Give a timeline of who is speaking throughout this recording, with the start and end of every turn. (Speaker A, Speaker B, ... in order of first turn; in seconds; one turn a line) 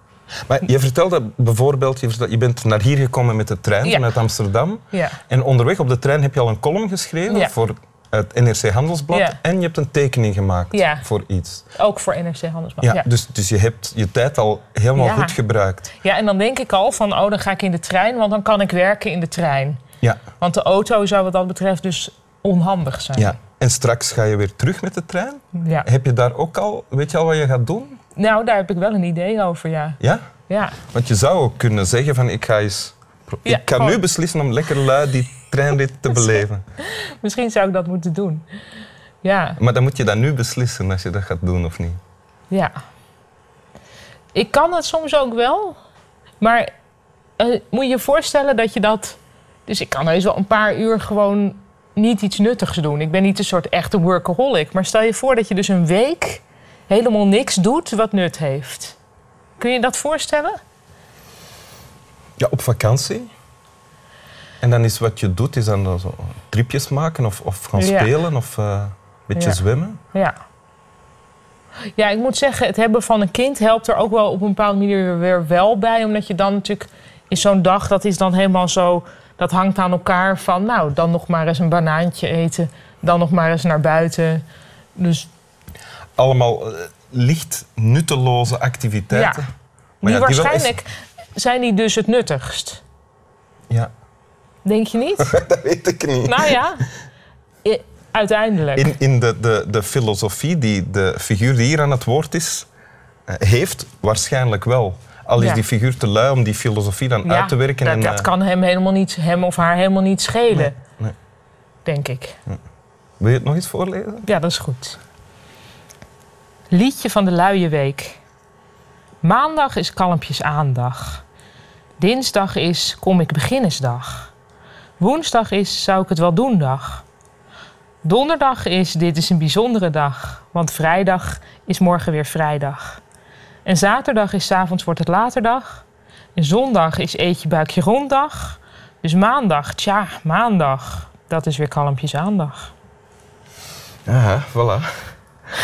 Speaker A: 0.5-11.7
Speaker B: 3.8-4.1
Speaker B: 4.9-5.2
Speaker B: 9.1-9.4
Speaker B: 10.7-11.0
Speaker B: 11.8-13.0
Speaker A: 12.8-15.9
Speaker B: 14.9-15.3
Speaker B: 16.0-19.8
Speaker B: 20.4-23.4
Speaker A: 23.1-28.0
Speaker B: 25.6-25.9
Speaker B: 28.1-30.8
Speaker A: 30.0-30.2
Speaker A: 30.9-36.6
Speaker B: 33.4-34.0
Speaker B: 36.3-38.4
Speaker B: 39.2-39.6
Speaker A: 39.6-42.0
Speaker B: 44.3-45.8
Speaker B: 46.4-46.7
Speaker B: 47.4-59.0
Speaker B: 59.6-60.6
Speaker A: 62.4-63.3
Speaker A: 64.6-70.0
Speaker B: 67.8-68.1
Speaker B: 69.3-69.6
Speaker B: 72.0-84.4
Speaker B: 85.0-85.3
Speaker A: 86.2-89.5
Speaker B: 89.1-89.4
Speaker B: 90.0-92.8
Speaker A: 90.0-90.8
Speaker B: 94.6-95.3
Speaker A: 95.2-96.5
Speaker B: 96.2-96.8
Speaker B: 97.6-98.9
Speaker A: 98.7-102.7
Speaker A: 103.3-108.3
Speaker B: 105.4-105.6
Speaker B: 107.2-110.7
Speaker A: 110.5-111.1
Speaker B: 111.8-112.4
Speaker A: 113.2-114.3
Speaker B: 114.2-115.0
Speaker B: 116.7-118.2
Speaker B: 119.2-121.2
Speaker B: 122.0-124.3
Speaker B: 125.0-127.0
Speaker B: 128.0-133.0
Speaker B: 133.6-135.8
Speaker B: 136.3-142.7
Speaker A: 144.1-144.9